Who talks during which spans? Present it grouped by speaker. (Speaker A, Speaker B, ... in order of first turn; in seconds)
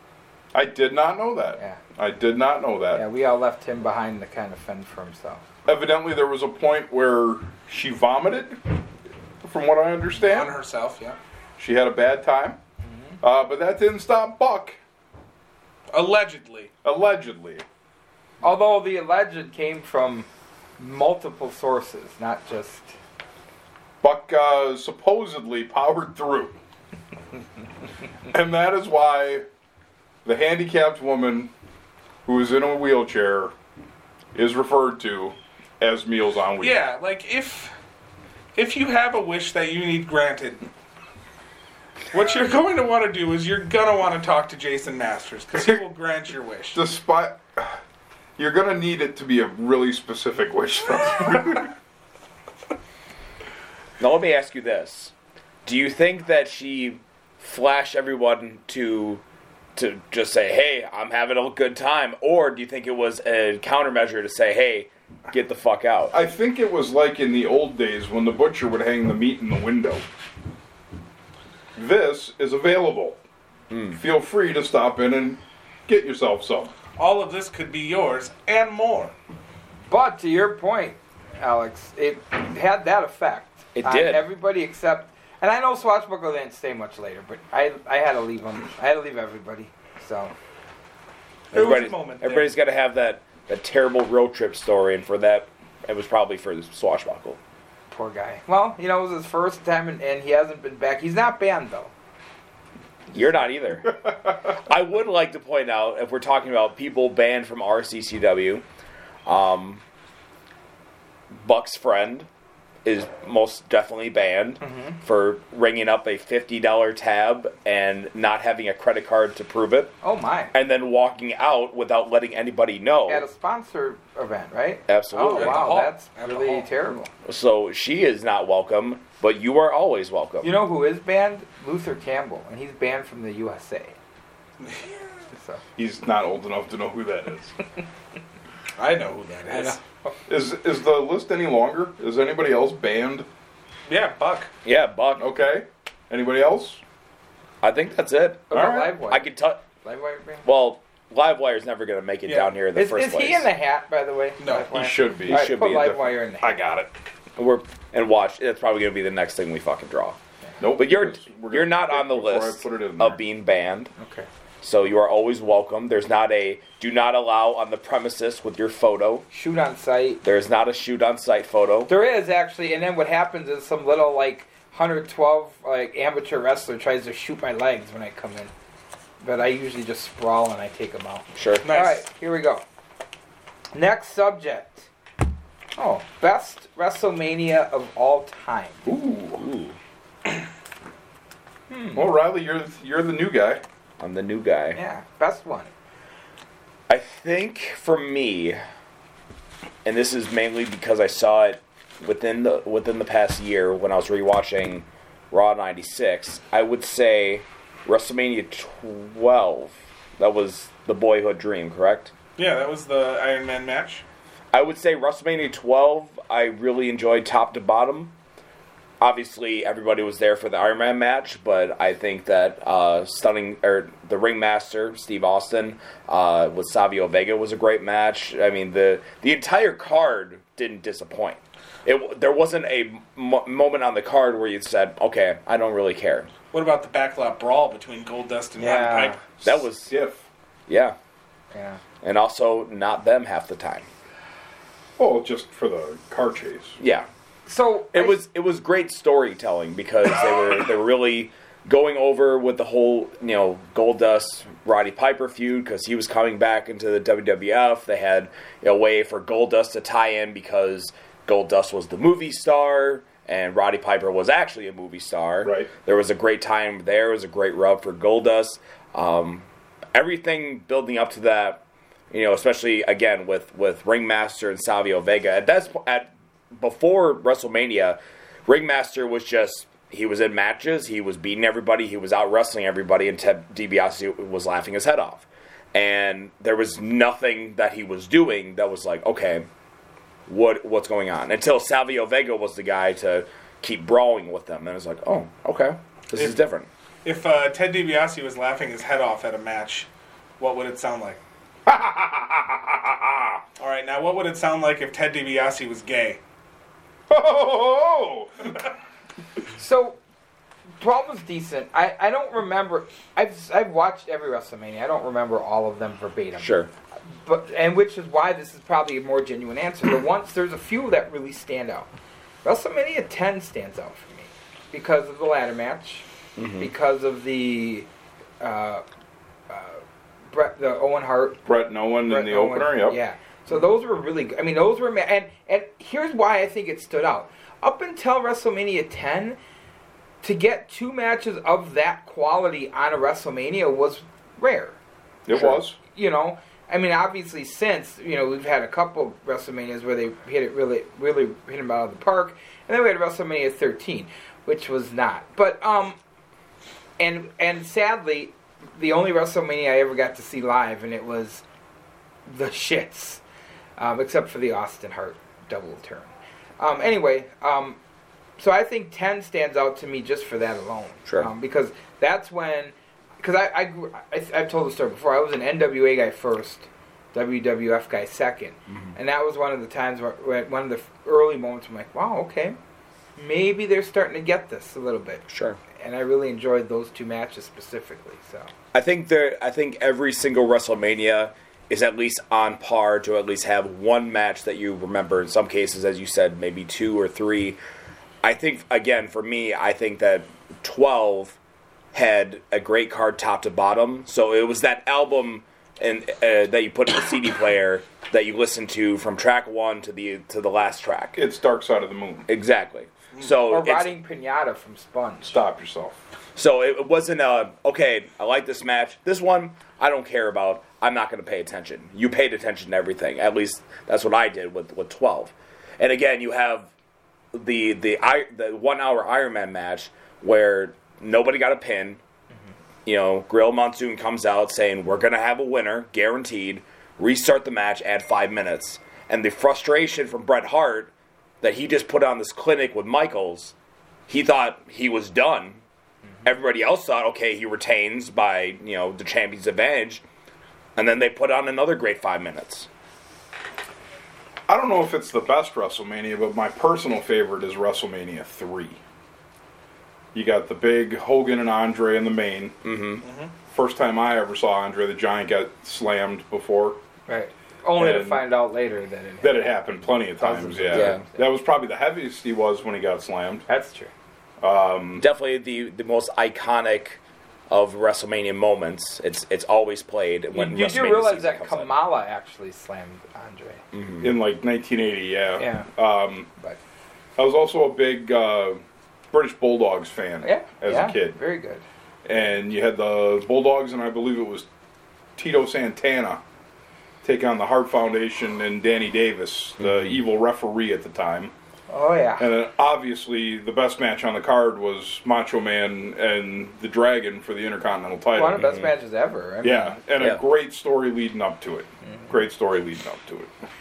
Speaker A: 0.5-3.0, 5.7-8.8, 9.4-10.6, 11.6-12.6, 13.2-14.8, 16.8-17.6, 24.0-26.6, 28.3-29.4, 30.2-31.5, 32.2-33.5, 34.3-36.8, 46.7-47.8, 48.4-51.7, 66.1-70.0, 71.8-73.2, 73.9-76.7, 135.8-137.5, 140.3-143.2, 145.2-146.8, 148.5-148.9, 154.6-156.9, 160.6-163.2, 188.8-189.4, 191.9-193.6, 239.9-240.2, 245.0-246.8, 265.4-265.7, 301.6-303.4, 307.1-308.6, 331.4-333.0, 345.2-345.8, 411.1-412.3, 415.2-416.0, 454.5-458.8, 460.1-462.6, 463.5-466.8, 467.8-468.2, 469.2-473.4, 474.4-475.0, 484.0-486.3, 487.2-491.2, 492.1-494.5, 495.2-496.2, 497.0-501.3, 502.2-508.4, 509.4-513.3
Speaker B: 2.9-5.4, 12.8-13.2, 18.4-20.3, 20.8-22.9, 79.9-90.3, 97.9-101.9, 114.6-115.0, 120.0-120.5, 123.1-127.1, 130.4-133.9, 135.3-135.6, 139.5-140.2, 148.5-149.2, 149.8-150.4, 152.7-156.6, 164.0-164.3, 169.3-170.2, 171.9-178.5, 179.2-182.6, 183.7-184.9, 185.8-188.8, 191.7-192.1, 194.7-195.7, 238.6-239.2, 241.5-241.8, 247.4-248.2, 309.6-310.0, 310.8-316.5, 317.2-321.9, 322.4-326.0, 326.6-327.9, 328.4-328.8, 329.5-331.4, 332.0-339.4, 340.2-344.8, 345.3-356.0, 357.0-361.4, 362.3-363.2, 363.8-367.8, 368.4-382.6, 383.2-385.2, 385.8-388.5, 413.5-415.4, 467.1-469.5, 470.2-471.2, 473.5-473.9, 480.3-483.6, 485.4-485.7, 490.2-491.6, 501.7-502.3, 508.1-509.8
Speaker C: 10.2-11.2, 15.9-16.7, 36.6-37.7, 38.5-40.6, 42.1-46.8, 77.0-79.1, 91.5-92.5, 125.3-126.7, 134.6-134.9, 138.8-139.8, 143.9-144.5, 152.2-152.5, 154.4-154.7, 181.6-182.0, 212.4-214.0, 236.5-239.5, 297.0-299.9, 300.4-301.2, 303.6-306.2, 463.0-463.3
Speaker D: 54.0-55.1, 55.6-59.2, 59.8-66.1, 73.7-74.0, 83.7-84.3, 91.5-97.4, 103.1-108.6, 109.2-109.8, 111.3-112.3, 112.8-119.9, 120.5-123.2, 124.9-125.9, 127.2-130.6, 144.6-145.2, 147.6-149.6, 150.4-153.5, 155.3-155.9, 157.4-160.2, 160.8-163.9, 164.6-169.2, 170.2-171.9, 181.3-181.6, 189.4-189.8, 194.0-194.8, 196.9-198.6, 199.8-212.1, 214.5-218.1, 219.0-236.3, 239.4-239.9, 240.7-240.9, 242.0-243.9, 246.8-247.1, 247.9-289.4, 290.3-296.7, 316.4-316.7, 326.4-326.7, 378.7-378.9, 385.3-385.6, 388.7-397.6, 398.2-401.4, 401.9-411.2, 412.3-413.9, 416.4-426.7, 427.3-432.0, 432.9-443.5, 444.1-445.6, 446.2-450.0, 450.8-452.7, 462.6-463.0, 470.7-471.0, 475.0-481.7, 483.7-484.1, 499.6-500.0, 508.4-508.7, 510.0-510.2